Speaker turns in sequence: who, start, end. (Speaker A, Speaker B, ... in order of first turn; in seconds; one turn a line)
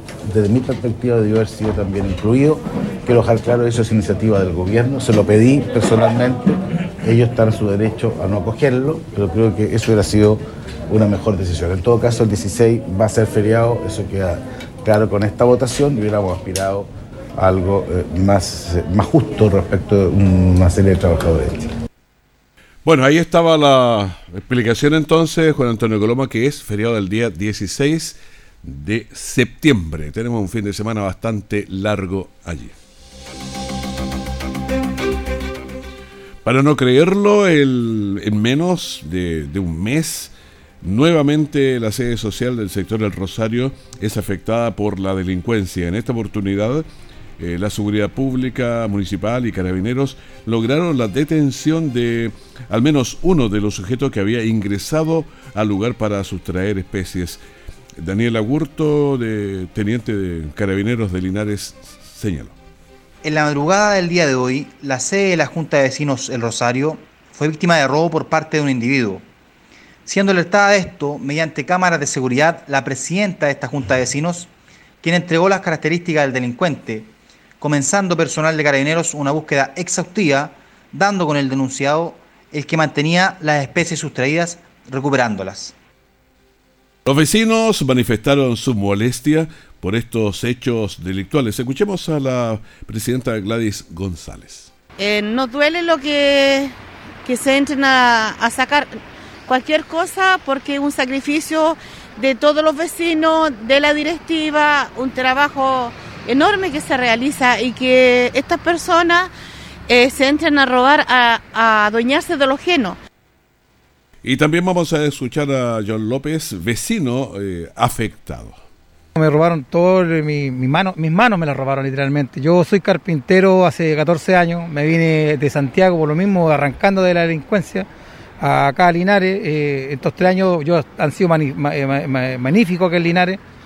Speaker A: 0.3-21.7
Speaker B: 22.9-32.7
Speaker B: 36.4-46.9
Speaker B: 47.4-57.4
Speaker B: 58.0-62.5
Speaker C: 63.2-69.2
Speaker C: 70.1-85.8
Speaker B: 87.1-94.7
Speaker D: 95.0-109.3
Speaker D: 109.9-113.0
Speaker B: 114.2-118.6
Speaker E: 119.2-127.9
Speaker E: 128.4-133.4